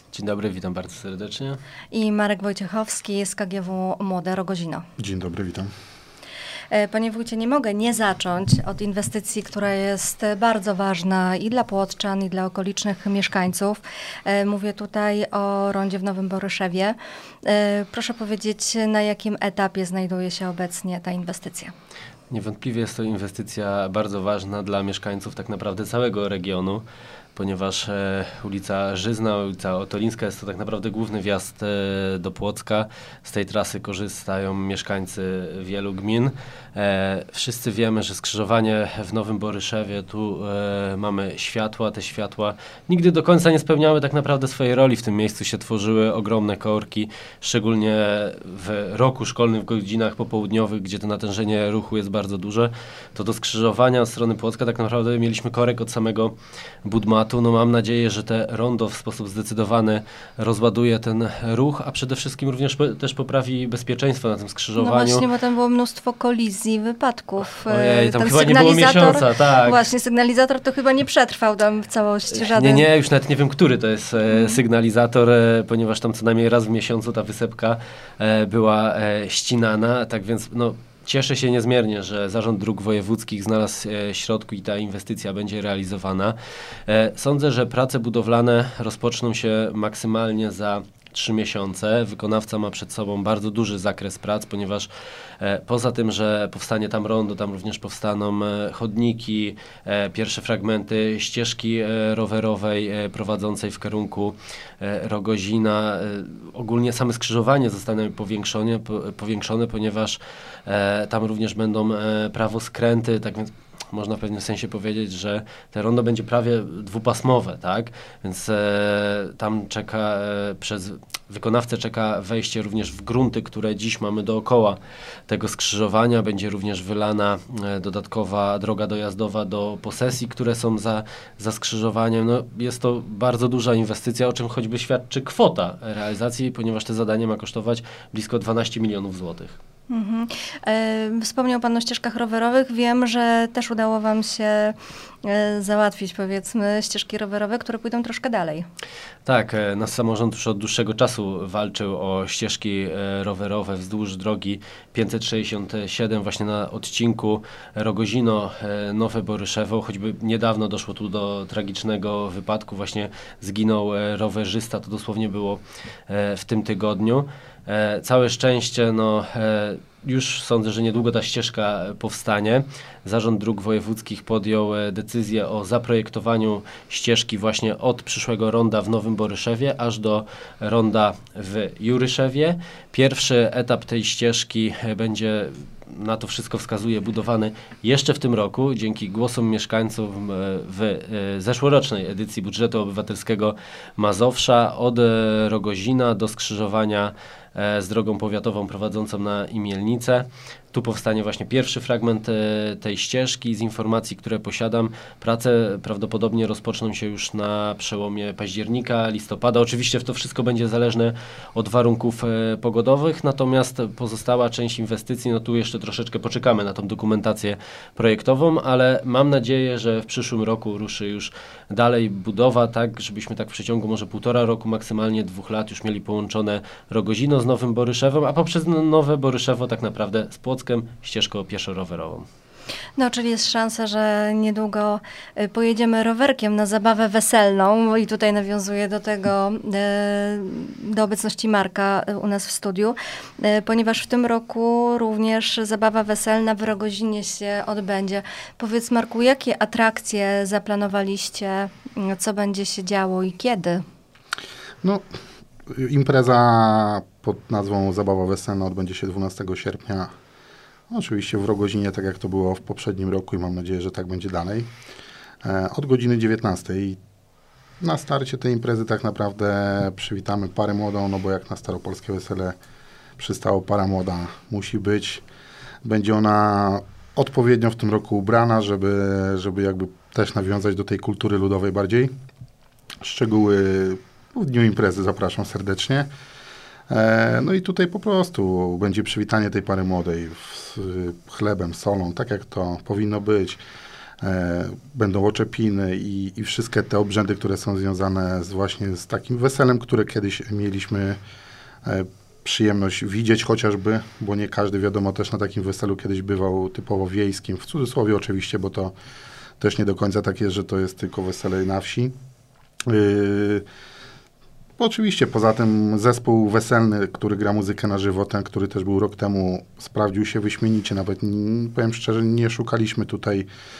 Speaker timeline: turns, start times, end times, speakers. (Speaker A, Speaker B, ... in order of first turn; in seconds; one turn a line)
Speaker A: 0.1-1.6
Speaker B: 1.9-4.8
Speaker C: 5.0-5.7
Speaker B: 6.7-21.7
Speaker A: 22.3-26.8
Speaker A: 27.4-65.2
Speaker B: 64.8-72.8
Speaker A: 67.6-69.8
Speaker A: 72.4-86.3
Speaker B: 74.3-74.6
Speaker A: 86.9-139.6
Speaker B: 139.9-148.6
Speaker A: 149.2-232.2
Speaker B: 233.0-253.8
Speaker C: 255.7-260.1
Speaker C: 260.9-264.7
Speaker C: 265.4-267.0
Speaker C: 267.8-272.6
Speaker C: 273.2-275.2
Speaker C: 275.8-282.1
Speaker C: 283.0-286.1
Speaker C: 286.9-293.6
Speaker C: 294.2-301.2
Speaker C: 301.8-308.9
Speaker C: 309.6-312.1
Speaker C: 312.9-313.6
Speaker C: 314.8-323.5